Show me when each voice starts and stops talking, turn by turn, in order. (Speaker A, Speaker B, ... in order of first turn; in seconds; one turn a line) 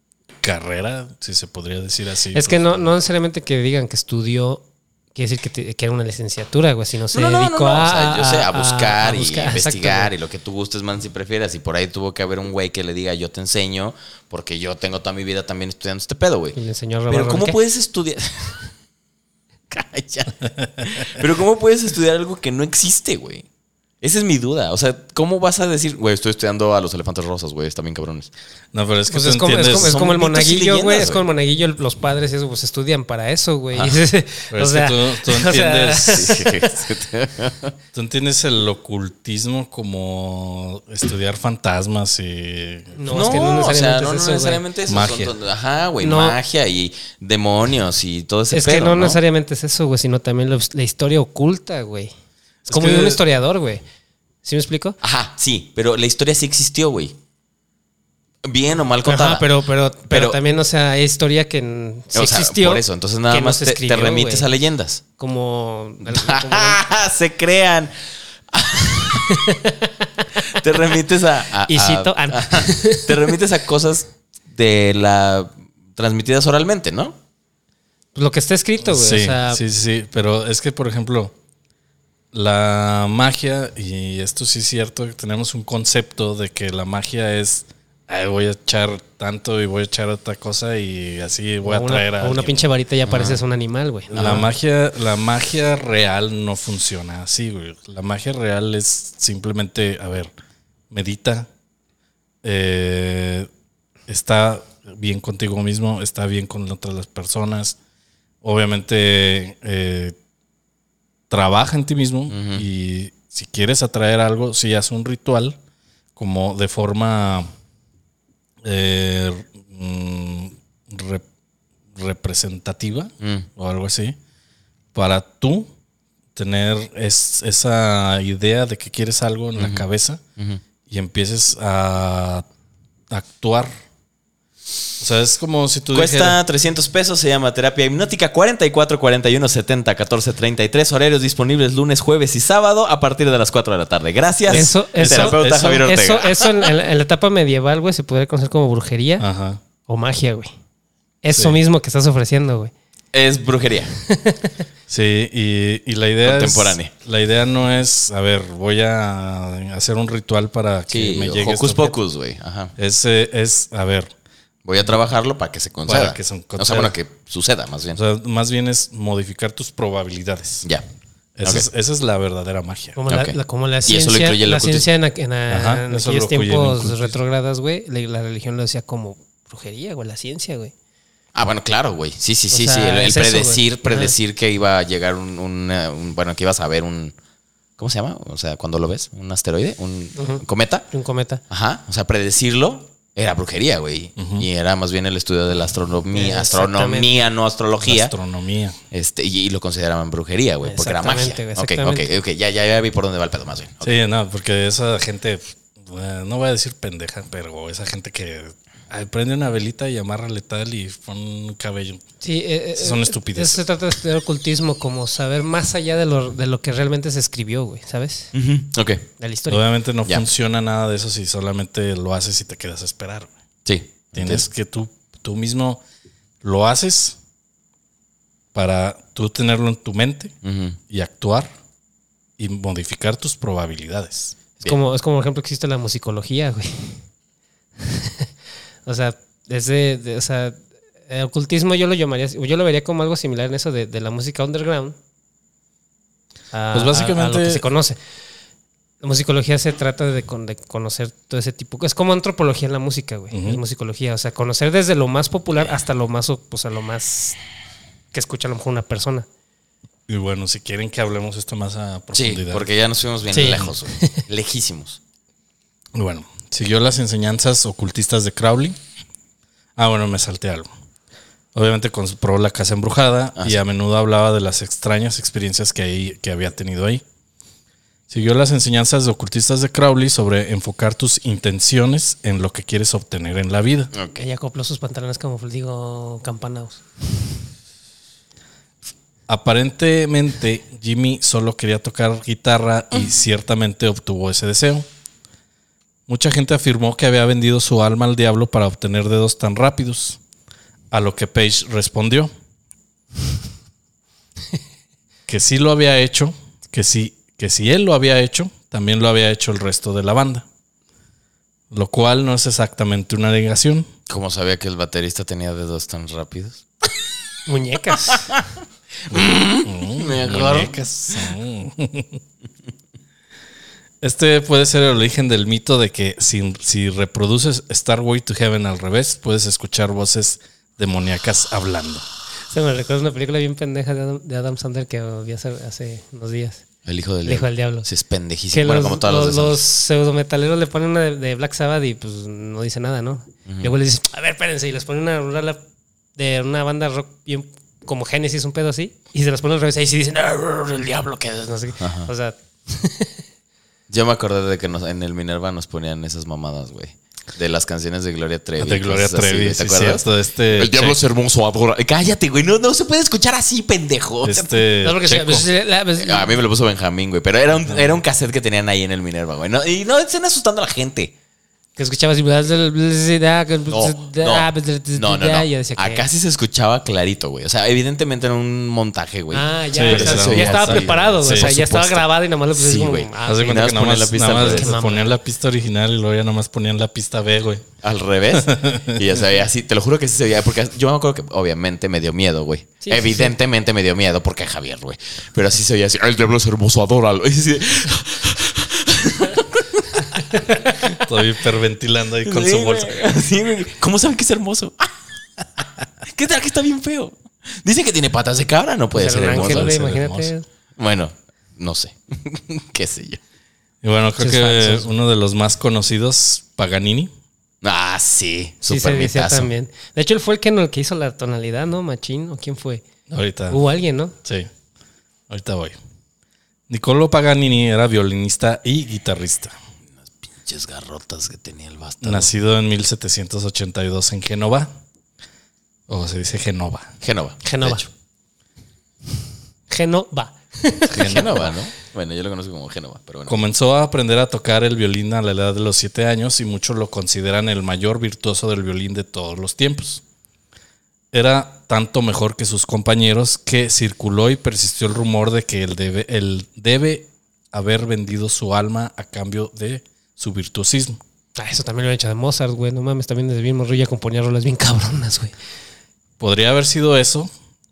Speaker A: 0.4-2.9
Speaker B: 2.3-4.6
Speaker B: 5.1-10.1
Speaker C: 7.1-16.6
Speaker B: 16.5-17.6
Speaker C: 17.1-18.7
Speaker C: 19.7-23.4
Speaker C: 24.0-28.3
Speaker A: 28.7-29.9
Speaker B: 29.1-36.7
Speaker C: 29.6-31.3
Speaker C: 33.7-34.0
Speaker A: 34.5-36.3
Speaker C: 36.1-37.7
Speaker A: 37.9-43.0
Speaker B: 42.9-44.6
Speaker C: 43.1-49.2
Speaker A: 44.9-45.3
Speaker B: 46.0-46.4
Speaker B: 48.5-52.1
Speaker A: 52.7-53.2
Speaker B: 52.7-53.8
Speaker B: 54.4-55.0
Speaker C: 55.0-57.1
Speaker C: 58.4-59.5
Speaker B: 59.0-64.5
Speaker C: 60.1-60.4
Speaker C: 62.1-65.0
Speaker B: 65.2-66.8
Speaker C: 66.0-67.9
Speaker C: 68.5-69.6
Speaker B: 69.2-70.6
Speaker C: 70.5-77.2
Speaker B: 71.7-73.3
Speaker B: 78.1-79.6
Speaker A: 78.8-81.3
Speaker A: 82.3-92.7
Speaker B: 91.6-94.5
Speaker C: 93.0-93.4
Speaker A: 94.1-100.3
Speaker A: 100.9-101.5
Speaker A: 102.4-103.5
Speaker A: 104.1-107.8
Speaker A: 108.4-110.2
Speaker A: 111.3-115.6
Speaker C: 112.3-112.6
Speaker A: 116.2-117.5
Speaker A: 118.6-121.2
Speaker A: 121.9-124.2
Speaker C: 123.2-123.5
Speaker A: 124.9-125.7
Speaker A: 126.3-130.2
Speaker C: 129.6-129.8
Speaker A: 130.9-132.5
Speaker A: 133.1-133.7
Speaker A: 135.0-136.4
Speaker C: 135.9-146.7
Speaker B: 144.5-149.2
Speaker A: 144.5-145.8
Speaker A: 149.2-149.6
Speaker B: 149.9-150.5
Speaker B: 151.2-152.7
Speaker C: 153.1-153.9
Speaker B: 154.0-154.5
Speaker A: 154.9-161.9
Speaker C: 156.2-156.9
Speaker C: 160.9-162.7
Speaker A: 162.8-164.1
Speaker C: 164.6-168.0
Speaker A: 165.9-166.9
Speaker A: 167.9-170.7
Speaker A: 171.4-173.0
Speaker B: 172.9-180.7
Speaker C: 173.1-174.8
Speaker A: 175.5-177.2
Speaker C: 181.3-187.1
Speaker B: 182.5-184.1
Speaker C: 187.8-190.9
Speaker B: 190.2-191.4
Speaker C: 191.5-198.1
Speaker A: 194.2-194.5
Speaker B: 196.1-197.1
Speaker A: 197.8-198.8
Speaker C: 198.9-203.9
Speaker B: 200.6-202.1
Speaker A: 203.8-212.0
Speaker B: 212.2-218.3
Speaker A: 212.8-213.6
Speaker C: 218.3-219.1
Speaker B: 219.2-219.6
Speaker A: 219.5-223.3
Speaker C: 223.7-224.4
Speaker A: 224.1-225.8
Speaker A: 226.4-227.2
Speaker A: 228.5-230.3
Speaker C: 230.4-230.8
Speaker A: 230.9-231.5
Speaker A: 232.4-234.3
Speaker B: 234.6-237.0
Speaker B: 237.8-238.3
Speaker B: 238.8-244.9
Speaker B: 246.5-248.0
Speaker A: 246.7-247.6
Speaker B: 249.0-257.4
Speaker A: 253.3-253.6
Speaker B: 258.1-259.3
Speaker A: 260.1-262.6
Speaker C: 262.1-265.0
Speaker B: 263.3-264.2
Speaker A: 265.9-268.8
Speaker A: 269.8-270.7
Speaker A: 271.5-277.0
Speaker A: 278.1-283.9
Speaker C: 283.9-284.2
Speaker B: 284.2-286.8
Speaker A: 289.3-294.9
Speaker A: 296.1-300.2
Speaker A: 300.9-302.3
Speaker A: 305.3-310.4
Speaker A: 311.7-313.9
Speaker C: 314.1-316.6
Speaker B: 317.5-318.3
Speaker C: 318.0-318.4
Speaker C: 319.1-321.3
Speaker A: 319.6-322.2
Speaker A: 324.0-332.1
Speaker B: 332.5-336.6
Speaker C: 336.9-339.6
Speaker B: 337.2-337.9
Speaker B: 338.5-345.6
Speaker C: 343.4-343.7
Speaker B: 346.2-353.2
Speaker C: 351.8-352.1
Speaker C: 353.9-364.6
Speaker A: 358.6-361.0
Speaker A: 364.2-365.4
Speaker B: 364.8-366.4
Speaker C: 366.0-371.1
Speaker A: 367.7-368.0
Speaker B: 371.8-376.0
Speaker C: 373.7-381.5
Speaker B: 379.3-385.1
Speaker A: 379.7-382.0
Speaker C: 382.5-384.8
Speaker A: 383.2-387.7
Speaker C: 387.8-401.0
Speaker A: 388.3-389.2
Speaker B: 392.8-393.3
Speaker B: 400.3-400.8
Speaker A: 401.0-403.0
Speaker C: 402.2-404.9
Speaker C: 405.6-409.8
Speaker B: 408.9-410.4
Speaker A: 409.2-410.3
Speaker C: 410.8-413.2
Speaker A: 413.8-417.1
Speaker B: 414.2-414.9
Speaker C: 417.6-419.5
Speaker B: 418.7-422.8
Speaker A: 423.1-423.6
Speaker B: 423.5-424.1
Speaker A: 424.2-424.5
Speaker A: 425.3-425.7
Speaker A: 426.7-429.5
Speaker C: 430.0-432.3
Speaker A: 432.0-434.7
Speaker A: 435.9-436.9
Speaker C: 437.0-437.9
Speaker B: 437.4-437.8
Speaker B: 439.7-441.4
Speaker A: 440.9-441.5
Speaker C: 440.9-443.4
Speaker A: 443.3-450.0
Speaker A: 451.1-461.0
Speaker B: 461.4-465.3
Speaker A: 466.2-467.3